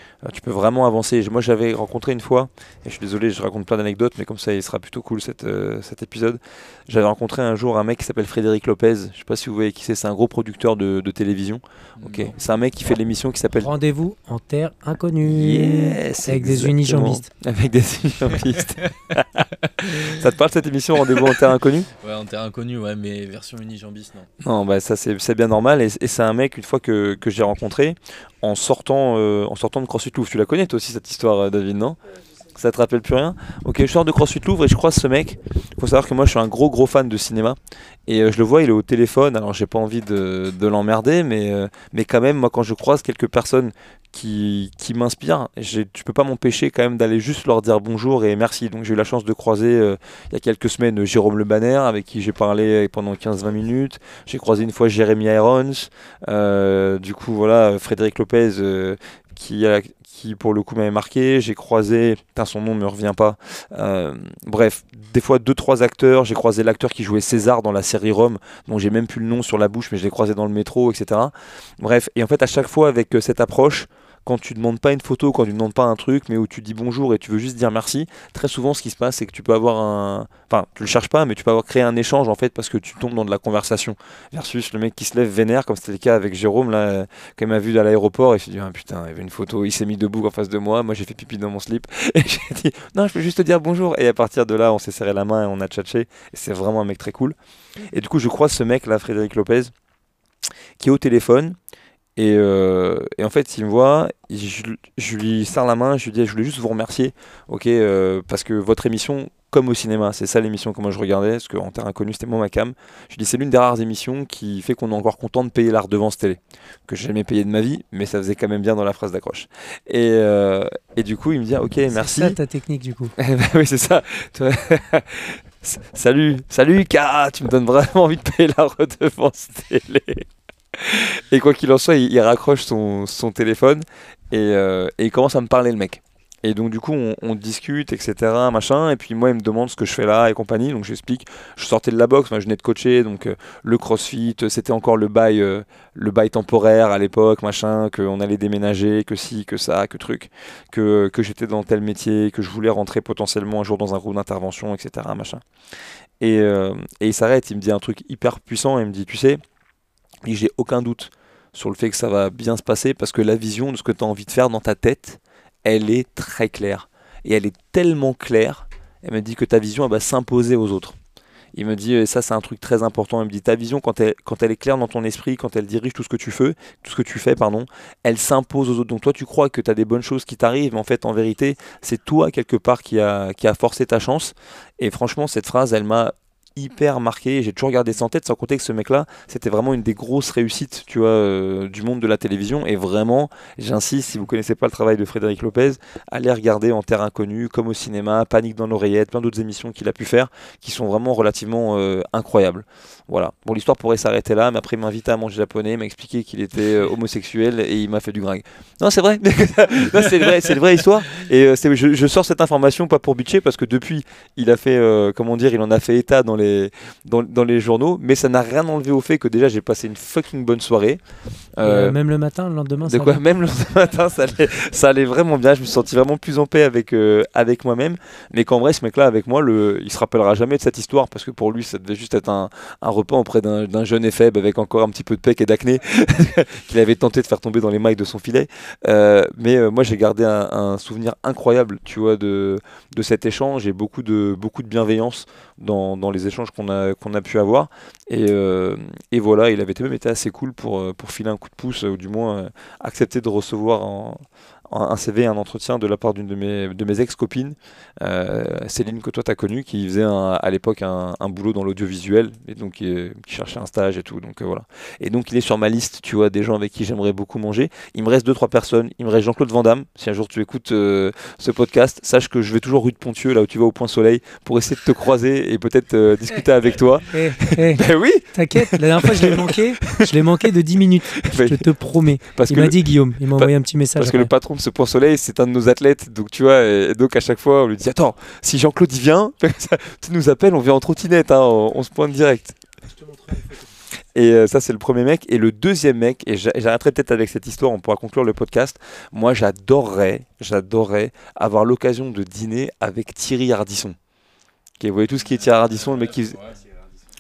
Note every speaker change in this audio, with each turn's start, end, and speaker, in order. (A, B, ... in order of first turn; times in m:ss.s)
0:00.2-0:13.7 A
0:12.0-0:12.4 B
0:13.5-0:17.3 C
0:15.2-0:21.9 A
0:21.9-0:24.3 B
0:24.4-0:32.0 A
0:32.6-1:37.4 A
1:37.9-1:39.7 A
1:40.8-1:41.6 A
1:42.2-2:02.4 A
2:01.9-2:03.1 C
2:03.2-2:35.4 A
2:36.2-2:39.4 A
2:40.2-2:51.0 A
2:51.6-3:41.0 A
3:41.6-3:42.0 A
3:41.6-3:43.2 C
3:42.8-4:40.3 A
4:37.1-4:44.3 C
4:41.2-4:41.7 A
4:42.3-4:52.6 A
4:54.1-5:04.0 A
5:04.8-5:06.6 A